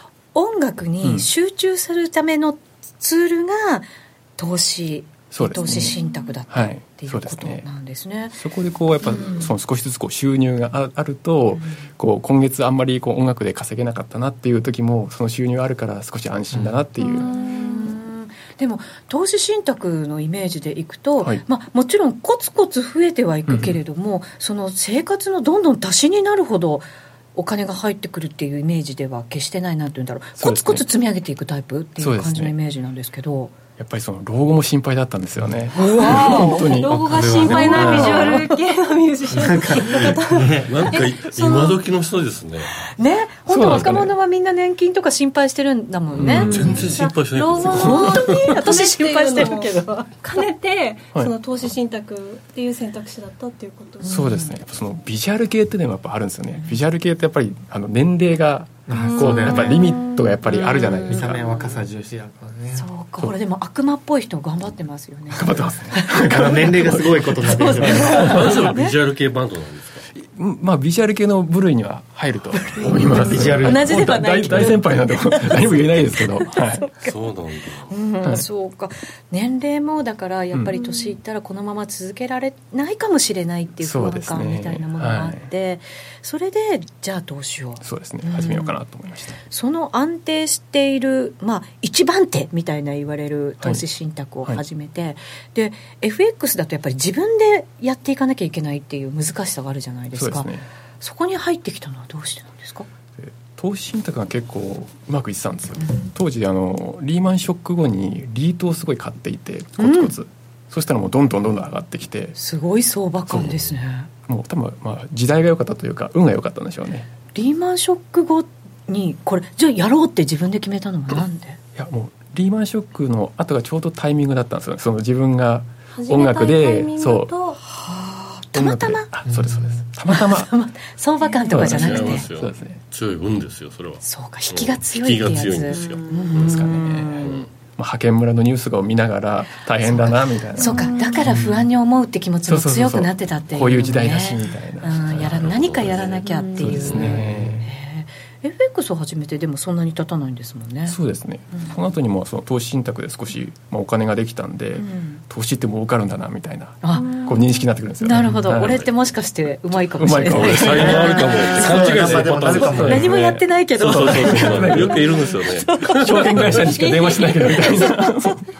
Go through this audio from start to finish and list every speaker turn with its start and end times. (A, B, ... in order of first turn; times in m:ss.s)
0:00.3-0:08.4 A
0:01.0-0:01.3 B
0:05.3-0:06.0 B
0:06.5-0:07.6 B
0:08.4-0:17.3 B
0:09.0-0:09.5 A
0:11.6-0:11.8 A
0:17.0-0:33.5 A
0:23.5-0:23.8 B
0:30.4-0:30.8 B
0:32.0-0:32.5 B
0:33.8-0:38.3 B
0:35.7-0:36.8 A
0:35.9-0:41.8 C
0:36.9-0:38.4 D
0:37.5-0:38.5 A
0:39.3-0:40.8 D
0:40.6-0:42.8 E
0:43.0-0:46.8 A
0:43.5-0:44.1 B
0:43.7-0:44.0 E
0:46.2-0:48.5 E
0:46.2-0:46.7 B
0:46.5-0:54.2 C
0:47.6-0:50.1 A
0:54.0-0:54.5 A
0:54.0-1:01.4 B
0:58.9-0:59.8 D
0:58.9-0:59.9 C
0:59.7-1:01.4 A
1:01.0-1:02.8 D
1:02.7-1:06.7 A
1:05.3-1:08.1 B
1:06.2-1:08.5 D
1:07.4-1:08.9 A
1:07.9-1:10.0 E
1:10.2-1:16.8 B
1:12.7-1:17.2 A
1:12.9-1:14.1 D
1:17.0-1:17.9 E
1:17.9-1:28.8 A
1:20.5-1:20.8 B
1:23.8-1:25.5 B
1:27.8-1:29.4 B
1:29.5-1:42.9 A
1:40.1-1:40.6 B
1:43.2-1:52.3 B
1:49.8-1:50.1 A
1:52.3-1:54.1 A
1:53.3-1:53.7 B
1:54.2-1:57.1 B
1:57.3-2:01.6 A
2:01.8-2:07.3 B
2:05.9-2:07.6 C
2:07.6-2:09.1 A
2:08.5-2:10.5 B
2:09.3-2:09.7 D
2:10.1-2:12.2 A
2:11.5-2:12.8 B
2:11.5-2:17.5 E
2:14.0-2:17.4 A
2:16.3-2:20.8 B
2:19.8-2:31.0 A
2:22.5-2:25.3 B
2:25.2-2:27.2 E
2:26.6-2:27.7 B
2:30.9-2:38.8 B
2:34.8-2:35.2 A
2:36.8-2:37.3 A
2:38.0-2:41.9 A
2:38.6-2:38.9 E
2:40.0-2:41.1 B
2:40.2-2:46.7 E
2:40.7-2:43.1 D
2:41.7-2:43.3 B
2:42.7-2:46.2 A
2:43.8-2:45.3 B
2:45.8-2:48.4 B
2:46.7-2:48.0 C
2:47.6-2:47.9 A